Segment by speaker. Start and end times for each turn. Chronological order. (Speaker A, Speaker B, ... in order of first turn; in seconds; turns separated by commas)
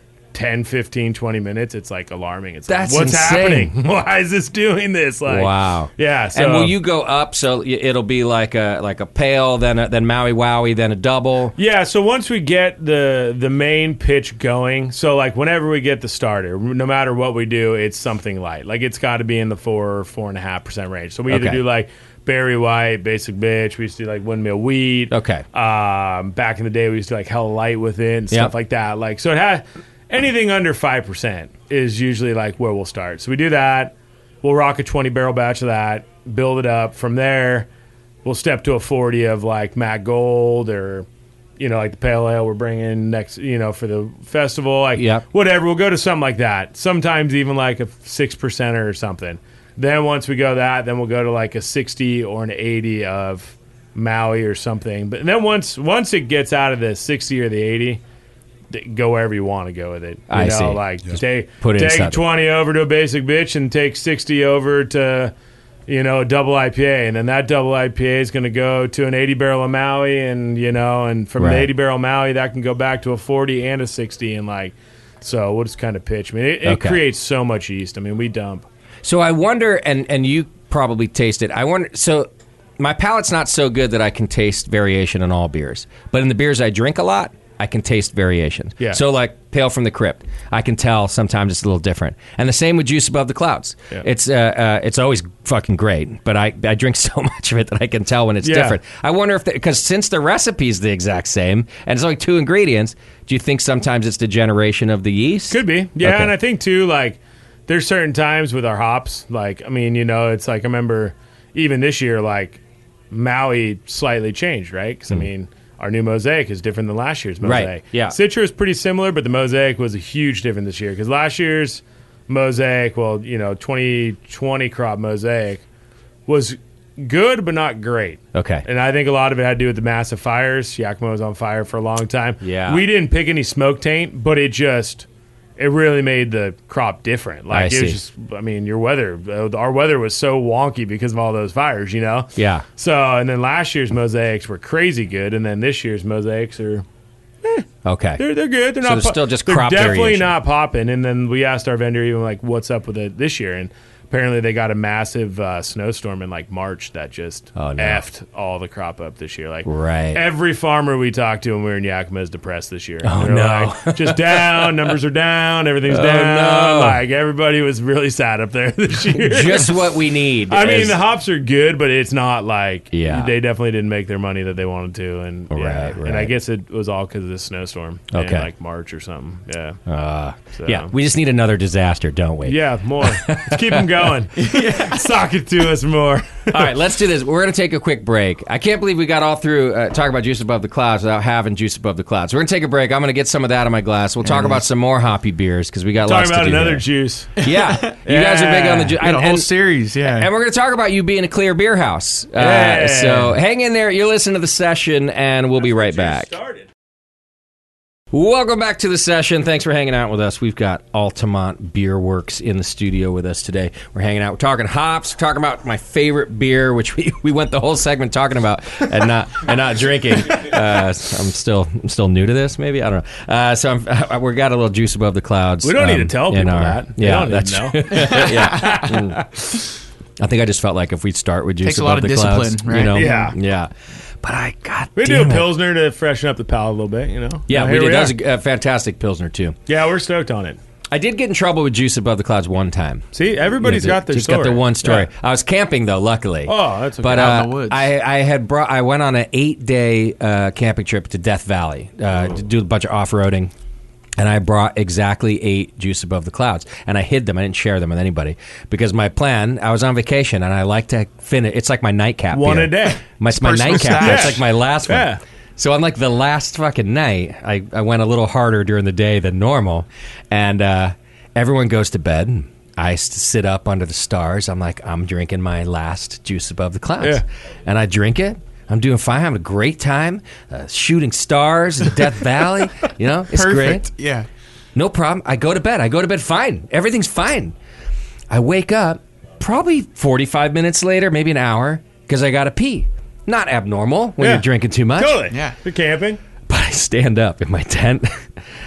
Speaker A: 0.3-6.7, Speaker B: 2.7-3.7, Speaker B: 5.3-11.5, Speaker A: 11.6-37.7, Speaker B: 21.3-21.6, Speaker B: 25.1-25.4, Speaker A: 38.2-41.0, Speaker A: 41.6-58.0, Speaker B: 45.0-45.2, Speaker A: 58.7-65.3, Speaker B: 60.3-62.2, Speaker A: 65.9-78.7, Speaker B: 71.4-71.7, Speaker B: 76.6-77.0, Speaker B: 79.0-106.3, Speaker A: 98.4-98.8, Speaker A: 105.5-112.6, Speaker A: 113.1-125.6, Speaker B: 117.4-118.2, Speaker A: 126.3-135.1, Speaker B: 128.3-128.6, Speaker B: 132.4-132.8, Speaker A: 135.6-146.8, Speaker B: 137.5-138.0, Speaker B: 142.3-142.6, Speaker B: 147.8-148.2, Speaker A: 148.2-169.9, Speaker B: 148.8-150.3, Speaker B: 157.6-158.0, Speaker B: 159.6-160.2, Speaker B: 163.0-164.9, Speaker B: 165.9-167.0, Speaker B: 169.1-171.0, Speaker A: 170.5-179.8, Speaker B: 172.9-173.3, Speaker B: 175.5-176.3, Speaker B: 178.1-178.5, Speaker B: 179.9-184.0, Speaker A: 180.6-180.9, Speaker A: 182.4-186.7, Speaker C: 184.5-185.0, Speaker B: 186.5-196.8, Speaker C: 194.2-194.6, Speaker A: 196.0-197.4, Speaker B: 197.4-199.5, Speaker C: 197.4-197.8, Speaker A: 198.0-199.0, Speaker C: 198.9-200.3, Speaker B: 200.0-206.3, Speaker A: 202.3-203.3, Speaker A: 205.6-206.7, Speaker B: 208.1-229.2, Speaker A: 225.6-229.5, Speaker B: 230.2-233.7, Speaker C: 231.6-233.2, Speaker A: 232.9-233.4, Speaker B: 234.2-235.5, Speaker A: 234.9-238.2, Speaker B: 237.5-239.6, Speaker A: 239.7-240.6, Speaker B: 240.9-243.0, Speaker A: 243.1-245.1, Speaker B: 243.6-253.5, Speaker A: 246.5-247.5, Speaker C: 247.1-247.9, Speaker B: 254.2-283.9, Speaker A: 262.3-263.1, Speaker C: 263.3-264.4, Speaker A: 263.7-265.2, Speaker C: 283.3-284.3, Speaker B: 284.7-287.5, Speaker B: 288.3-295.2, Speaker A: 294.2-294.4, Speaker A: 294.9-296.2, Speaker C: 295.3-295.6, Speaker B: 296.5-298.3